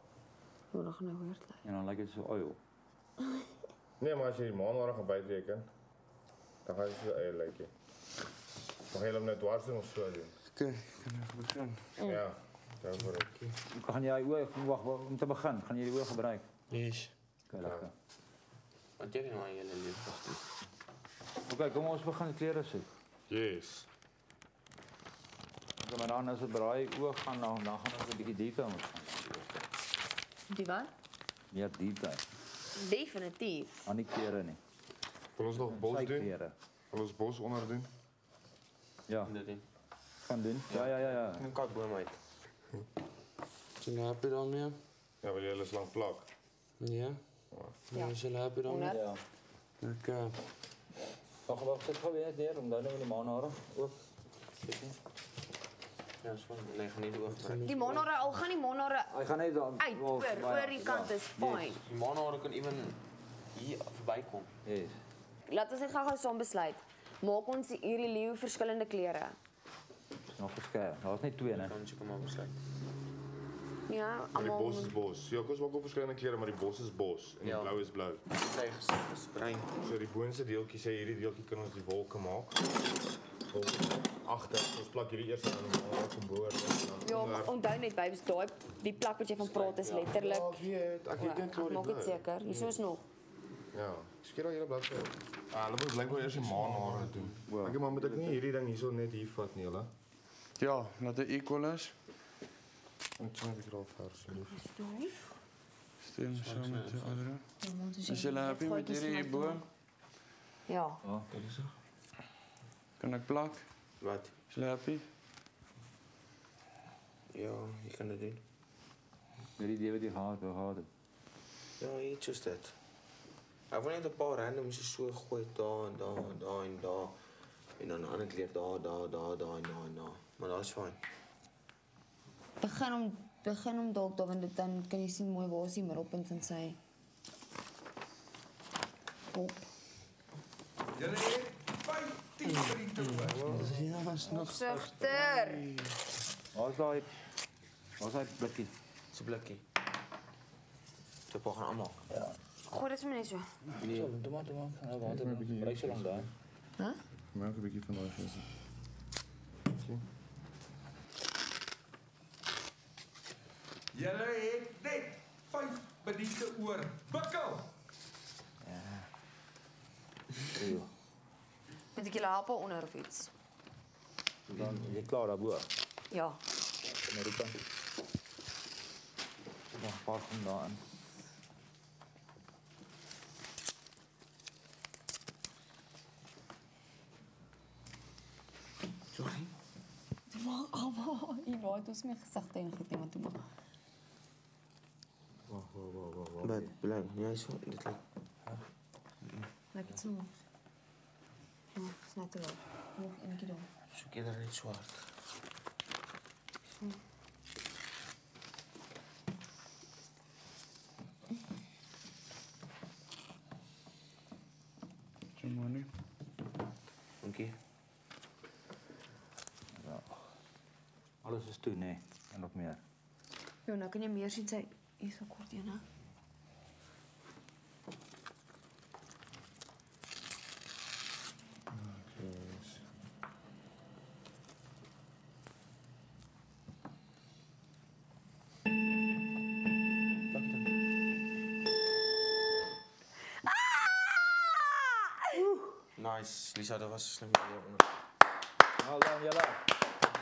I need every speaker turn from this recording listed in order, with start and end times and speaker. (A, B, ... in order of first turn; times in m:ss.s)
0:00.7-0:01.6 A
0:01.6-0:02.6 B
0:04.0-0:05.6 C
0:06.6-0:07.7 C
0:08.9-0:10.3 C
0:10.6-0:11.9 D
0:12.0-0:13.5 C
0:13.7-0:16.4 B
0:16.7-0:17.1 D
0:17.5-0:17.9 B
0:17.6-0:17.9 C
0:19.0-0:20.4 E
0:21.5-0:22.9 B
0:23.3-0:23.9 C
0:25.8-0:29.4 B
0:30.5-0:30.9 A
0:31.5-0:32.2 B
0:32.8-0:33.8 A
0:33.8-0:34.6 B
0:35.4-0:36.3 C
0:35.6-0:36.5 B
0:36.9-0:37.9 C
0:39.1-0:39.3 B
0:39.2-0:39.6 E
0:40.2-0:41.5 B
0:40.7-0:42.2 E
0:43.8-0:44.8 D
0:45.2-0:46.3 C
0:46.8-0:47.2 D
0:47.9-0:48.9 D
0:47.9-0:49.0 A
0:48.9-0:49.2 B
0:49.8-0:50.4 D
0:51.5-0:54.0 B
0:54.6-0:55.0 B
0:56.2-0:58.1 E
0:57.4-0:57.9 D
0:57.6-0:59.2 A
0:59.1-1:01.7 B
0:59.8-1:01.8 A
1:01.9-1:03.0 E
1:03.5-1:04.5 E
1:04.6-1:05.0 B
1:05.5-1:09.4 A
1:10.3-1:11.7 B
1:11.5-1:12.6 E
1:13.9-1:14.9 A
1:14.3-1:18.2 C
1:17.4-1:17.8 E
1:18.3-1:19.7 E
1:19.8-1:22.6 C
1:23.5-1:27.5 C
1:27.0-1:30.6 A
1:29.4-1:30.1 E
1:30.1-1:32.7 C
1:31.2-1:33.0 A
1:33.7-1:39.9 C
1:36.6-1:37.2 E
1:37.5-1:38.2 B
1:40.6-1:41.9 D
1:43.2-1:44.6 C
1:44.5-1:45.2 A
1:46.0-1:47.4 D
1:46.3-1:47.2 E
1:47.6-1:49.6 A
1:48.0-1:49.6 D
1:50.7-1:51.0 A
1:51.3-1:51.7 E
1:53.0-1:53.7 D
1:54.0-1:54.3 E
1:54.5-1:55.1 D
1:57.3-1:58.4 E
1:59.6-2:00.9 B
2:01.8-2:02.8 E
2:03.7-2:07.2 E
2:07.8-2:11.0 E
2:12.6-2:16.8 A
2:19.3-2:19.6 A
2:20.9-2:23.2 F
2:22.5-2:24.4 E
2:23.2-2:23.6 D
2:23.4-2:25.3 B
2:24.3-2:25.7 A
2:24.4-2:25.8 D
2:26.5-2:27.1 B
2:28.0-2:28.7 B
2:29.1-2:29.6 E
2:31.3-2:32.0 E
2:32.1-2:32.4 B
2:32.7-2:33.5 A
2:33.8-2:36.3 B
2:33.8-2:34.1 E
2:35.0-2:36.2 C
2:37.3-2:38.4 C
2:39.7-2:40.0 C
2:43.9-2:47.7 F
2:48.6-2:49.1 B
2:50.5-2:50.9 B
2:52.0-2:53.3 A
2:54.5-2:55.7 B
2:56.1-2:56.4 A
2:57.1-2:57.6 B
2:59.8-3:00.8 B
3:09.1-3:09.5 E
3:10.3-3:13.4 A
3:15.5-3:16.7 B
3:16.0-3:16.4 C
3:16.4-3:18.0 E
3:19.2-3:19.5 E
3:19.7-3:20.3 A
3:21.8-3:23.7 A
3:23.9-3:25.0 E
3:35.4-3:35.9 D
3:37.2-3:37.6 E
3:39.7-3:40.1 B
3:41.2-3:42.8 B
3:43.7-3:45.8 A
3:51.7-3:52.8 C
4:00.3-4:00.7 E
4:04.6-4:05.3 A
4:06.0-4:07.9 E
4:08.8-4:09.6 B